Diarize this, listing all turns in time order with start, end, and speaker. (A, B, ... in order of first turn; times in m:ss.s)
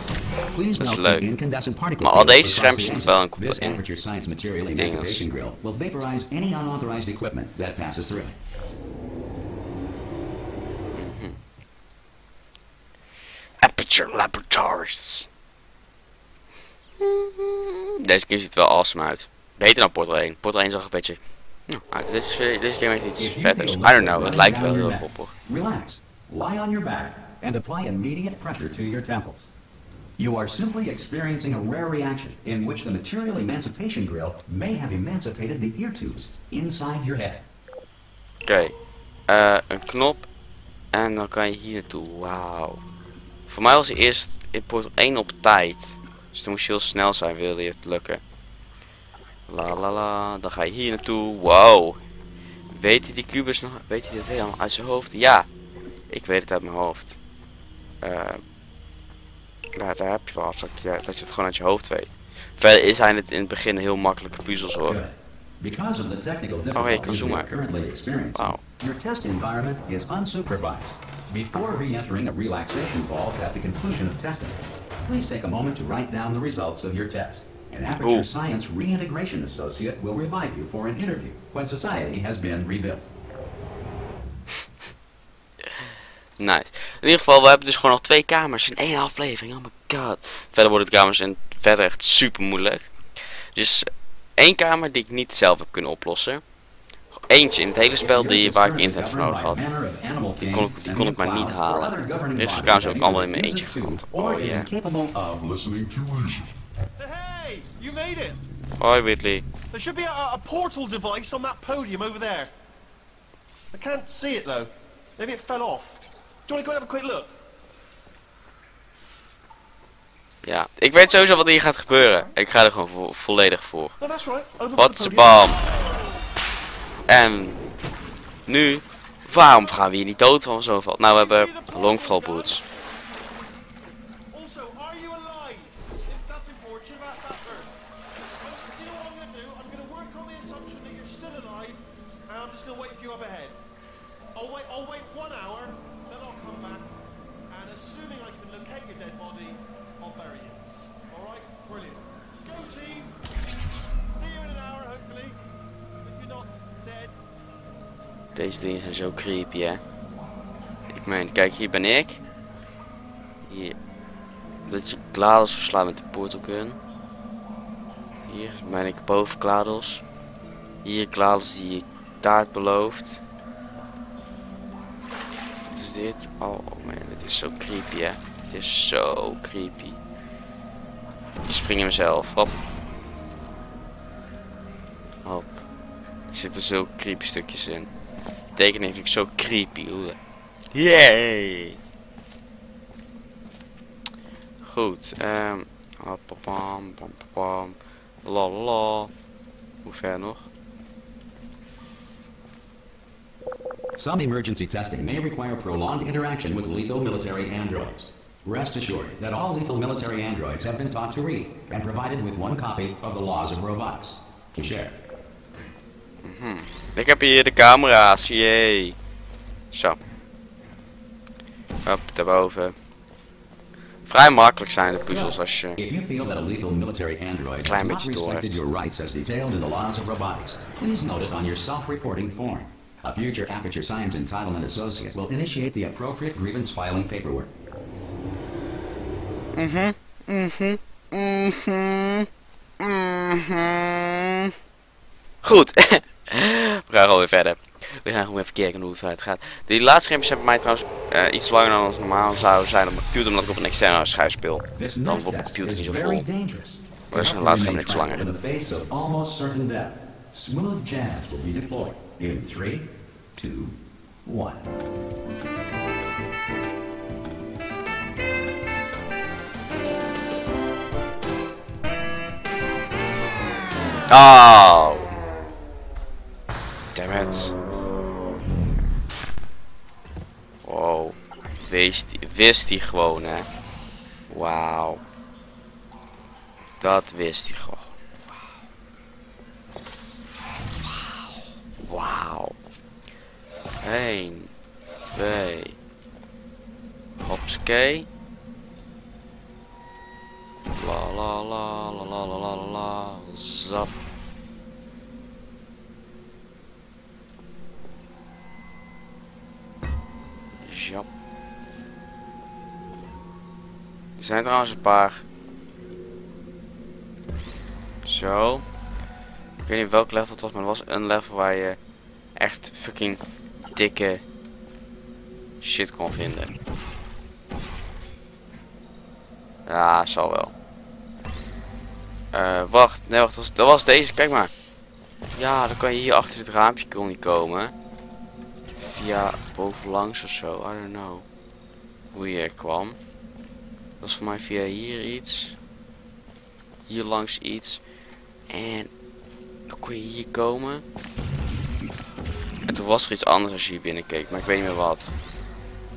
0:00.5-0:08.4 A
0:00.7-0:01.3 B
0:02.0-0:03.8 B
0:04.8-0:05.2 B
0:10.9-0:11.4 B
0:13.6-0:15.3 B
0:17.0-0:25.3 B
0:23.2-0:29.5 A
0:30.2-0:37.4 A
0:38.4-0:38.7 B
0:39.3-0:40.3 B
0:40.9-0:42.8 B
0:43.5-0:48.2 B
0:49.5-0:52.0 B
0:52.7-0:55.5 B
0:56.1-0:57.2 B
0:58.0-0:58.4 B
0:59.8-1:05.0 B
1:04.8-1:23.1 A
1:06.7-1:07.5 B
1:08.3-1:08.6 B
1:18.0-1:18.3 B
1:25.7-1:36.4 B
1:37.3-1:39.6 B
1:38.0-1:46.5 A
1:40.4-1:44.7 B
1:47.0-1:48.4 C
1:48.8-1:49.4 B
1:49.7-1:52.5 C
1:53.7-1:57.3 C
2:00.4-2:03.9 B
2:01.0-2:01.5 C
2:04.0-2:06.1 C
2:04.8-2:05.7 B
2:07.0-2:07.6 B
2:08.5-2:12.6 B
2:11.1-2:12.6 C
2:14.3-2:17.8 C
2:18.4-2:23.6 C
2:24.3-2:26.9 C
2:27.5-2:33.1 C
2:34.1-2:35.4 C
2:36.0-2:37.2 C
2:38.3-2:39.8 B
2:40.9-2:42.2 B
2:43.4-2:43.7 B
2:44.6-2:46.8 B
2:48.3-2:50.0 B
2:50.8-2:53.2 B
2:55.7-3:00.0 B
3:01.4-3:02.5 B
3:05.2-3:05.6 B
3:06.3-3:07.9 B
3:08.6-3:10.2 B
3:10.7-3:11.8 B
3:14.6-3:19.1 B
3:19.8-3:20.5 B
3:24.0-3:35.0 A
3:36.2-3:39.0 B
3:39.7-3:40.0 B
3:41.8-3:42.7 B
3:44.0-3:45.8 B
3:45.1-3:57.5 A
3:47.6-3:48.6 B
3:59.5-4:02.3 B
4:02.8-4:04.5 B
4:05.4-4:16.3 B
4:14.8-4:24.7 A
4:17.1-4:18.3 B
4:34.1-4:35.1 B
4:36.9-4:37.5 B
4:40.6-4:43.5 B
4:44.3-4:45.0 B
4:46.8-4:48.0 B
4:50.8-4:52.5 B
4:53.8-4:54.5 B
4:55.1-4:55.8 B
4:57.2-4:58.0 B
5:00.8-5:03.9 B
5:10.6-5:11.1 B
5:14.2-5:15.2 B
5:18.0-5:18.6 B
5:19.6-5:21.8 B
5:22.4-5:23.2 B
5:23.7-5:24.2 B
5:25.6-5:26.5 B
5:29.6-5:30.5 B
5:32.3-5:34.5 B
5:35.3-5:37.7 B
5:38.8-5:41.2 B
5:42.1-5:43.0 B
5:44.0-5:45.6 B
5:46.9-5:47.8 B
5:48.5-5:48.9 B
5:49.7-5:50.8 B
5:52.7-5:55.1 B